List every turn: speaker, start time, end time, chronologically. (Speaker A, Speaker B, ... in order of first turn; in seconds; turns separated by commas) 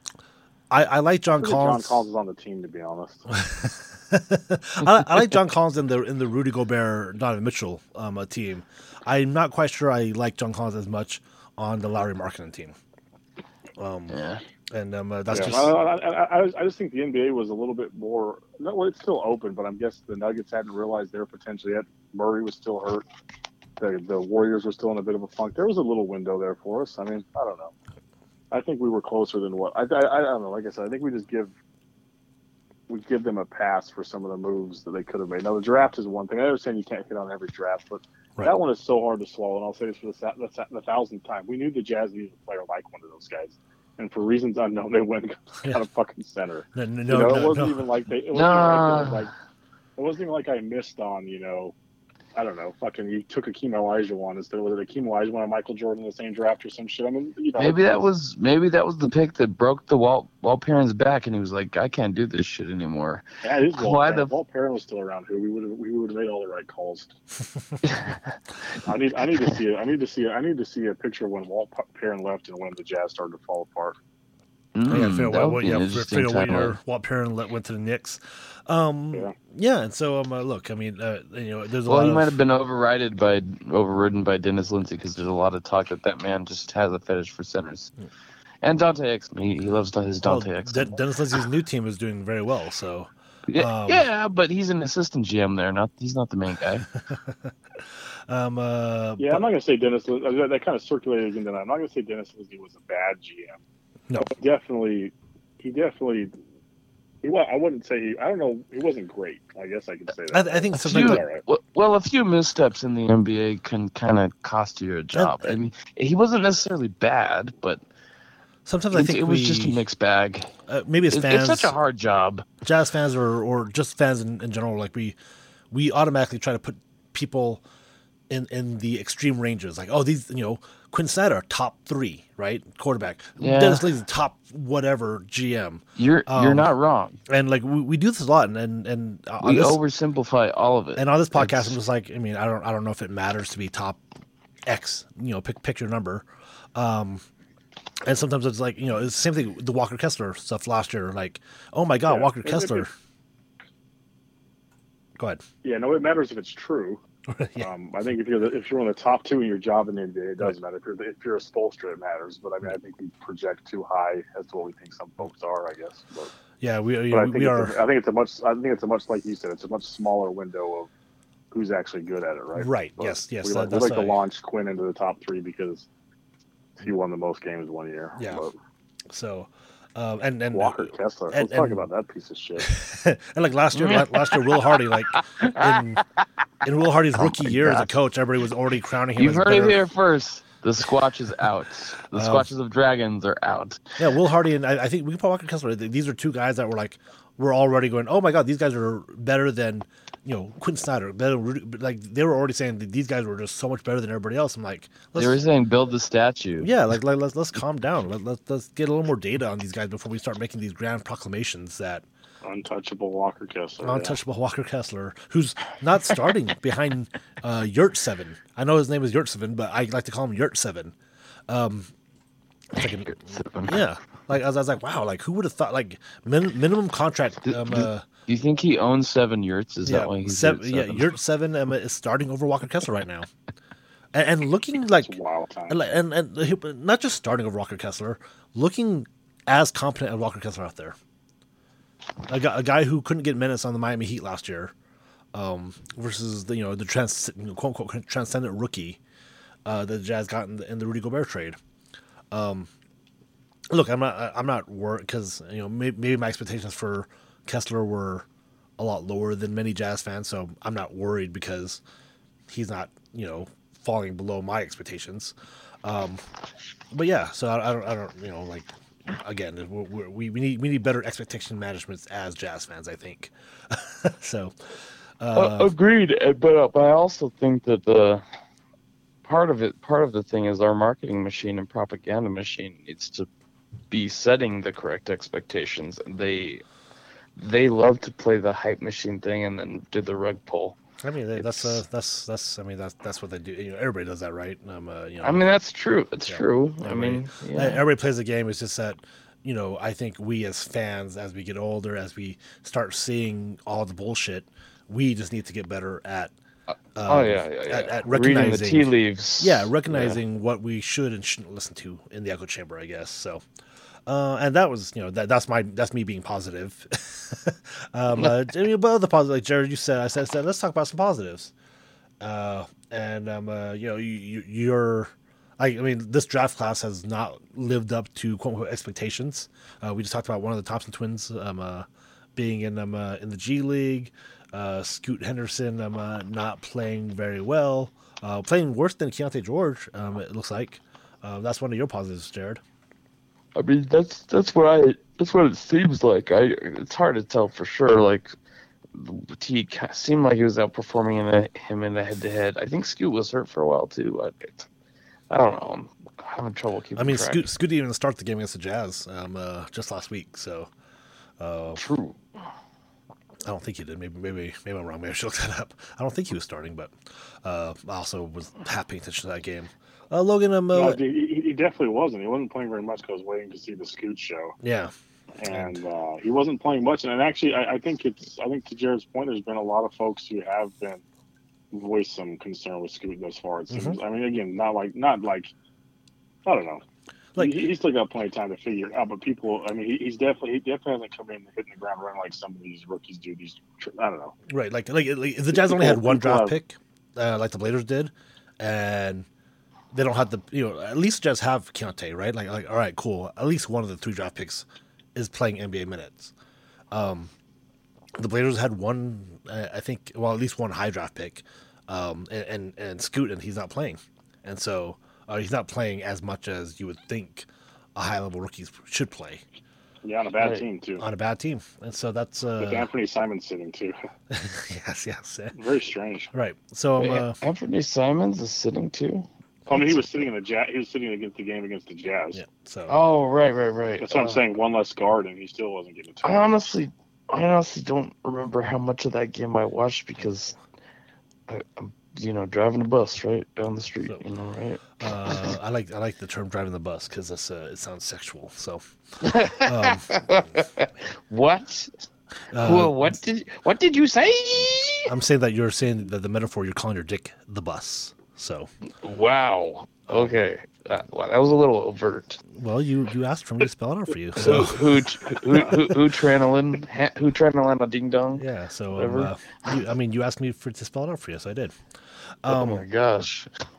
Speaker A: 0.7-2.0, Speaker B: 1.4-3.2, Speaker A: 3.3-12.8, Speaker A: 13.8-14.2, Speaker C: 14.1-14.4, Speaker A: 14.7-15.7, Speaker B: 15.3-23.0, Speaker B: 23.8-27.7, Speaker B: 28.5-31.5, Speaker B: 32.9-49.3, Speaker A: 46.7-47.8, Speaker C: 48.3-49.3, Speaker B: 50.0-51.7, Speaker B: 52.4-58.0, Speaker C: 57.5-63.2, Speaker B: 63.4-67.1, Speaker C: 63.8-64.3, Speaker C: 67.8-68.2, Speaker B: 68.8-74.0, Speaker C: 74.7-76.8, Speaker A: 74.9-82.3, Speaker C: 81.8-87.9, Speaker C: 88.6-91.0, Speaker A: 90.2-94.0, Speaker C: 93.5-96.9, Speaker A: 97.1-97.5, Speaker A: 98.3-99.5, Speaker B: 99.2-103.6, Speaker B: 104.2-106.3, Speaker B: 107.2-111.4, Speaker A: 110.3-111.2, Speaker C: 110.7-117.8, Speaker A: 115.1-115.6, Speaker A: 118.7-119.8, Speaker C: 118.9-120.5, Speaker A: 120.7-121.8, Speaker C: 121.1-122.5, Speaker A: 122.6-125.2, Speaker A: 125.7-127.6, Speaker A: 128.3-136.7, Speaker C: 133.4-133.8, Speaker C: 136.0-137.2, Speaker A: 137.3-139.8, Speaker C: 139.4-141.7, Speaker A: 140.9-144.0, Speaker A: 144.7-147.2, Speaker A: 148.0-152.9, Speaker B: 152.1-152.8, Speaker A: 155.2-155.4, Speaker B: 155.6-157.0, Speaker A: 157.3-157.7, Speaker B: 157.6-166.3, Speaker A: 166.6-167.7, Speaker B: 167.1-170.9, Speaker B: 171.5-175.9, Speaker A: 172.5-174.2, Speaker B: 176.8-178.5, Speaker A: 178.2-178.4, Speaker A: 179.1-181.8, Speaker B: 180.5-182.8, Speaker A: 182.6-186.0, Speaker C: 183.7-186.2, Speaker A: 186.6-189.8, Speaker C: 187.2-187.9, Speaker C: 189.2-193.9, Speaker A: 192.1-192.5, Speaker A: 194.0-205.4, Speaker C: 205.2-206.7, Speaker A: 206.6-212.0, Speaker B: 212.4-214.2, Speaker A: 213.8-220.9, Speaker A: 221.5-221.9, Speaker A: 222.7-228.0, Speaker C: 222.8-223.8, Speaker C: 227.4-231.1, Speaker A: 229.8-233.3, Speaker A: 234.1-235.1, Speaker B: 235.0-235.9, Speaker A: 235.7-240.9, Speaker A: 242.3-244.7, Speaker A: 245.3-249.0, Speaker A: 249.6-251.6, Speaker A: 252.3-252.7, Speaker A: 253.7-258.2, Speaker A: 258.8-261.8, Speaker A: 262.5-266.2, Speaker A: 266.9-274.5, Speaker A: 275.2-275.7, Speaker C: 275.3-278.2, Speaker C: 279.2-283.3, Speaker C: 283.9-286.6, Speaker C: 287.4-290.8, Speaker A: 291.0-295.4, Speaker C: 291.4-291.8, Speaker C: 295.2-297.8, Speaker A: 296.3-306.3, Speaker A: 306.9-313.4, Speaker C: 307.0-310.2, Speaker A: 314.1-321.5, Speaker A: 322.2-342.6, Speaker C: 343.5-348.3, Speaker C: 348.9-354.7, Speaker C: 355.3-357.5, Speaker A: 357.0-360.7, Speaker A: 361.4-361.8, Speaker C: 361.8-362.2, Speaker A: 363.4-371.0, Speaker B: 370.7-374.5, Speaker A: 374.6-374.9, Speaker B: 375.4-381.0, Speaker A: 375.5-375.8, Speaker B: 381.7-385.5, Speaker A: 383.7-384.0, Speaker B: 386.4-386.8, Speaker B: 387.4-394.3, Speaker A: 394.5-399.2, Speaker B: 395.5-396.6, Speaker A: 399.9-406.3, Speaker A: 406.9-407.3, Speaker A: 408.1-419.4, Speaker B: 420.0-421.0, Speaker A: 421.0-422.9, Speaker B: 422.6-423.9, Speaker A: 424.3-425.5, Speaker B: 425.5-426.3, Speaker A: 426.3-427.4, Speaker C: 427.0-429.3, Speaker B: 429.7-432.4, Speaker A: 432.3-432.9, Speaker C: 432.9-434.4, Speaker B: 434.0-436.5, Speaker C: 436.2-440.6, Speaker C: 441.5-445.5, Speaker A: 445.0-448.8, Speaker C: 449.2-451.9, Speaker A: 449.6-450.4, Speaker A: 452.5-453.2, Speaker C: 452.5-455.1, Speaker A: 455.1-458.7, Speaker C: 459.0-462.4, Speaker A: 460.1-460.3, Speaker A: 462.5-464.9, Speaker C: 464.3-469.7, Speaker A: 465.5-466.0, Speaker A: 468.4-471.8, Speaker A: 472.4-472.8, Speaker C: 472.5-473.5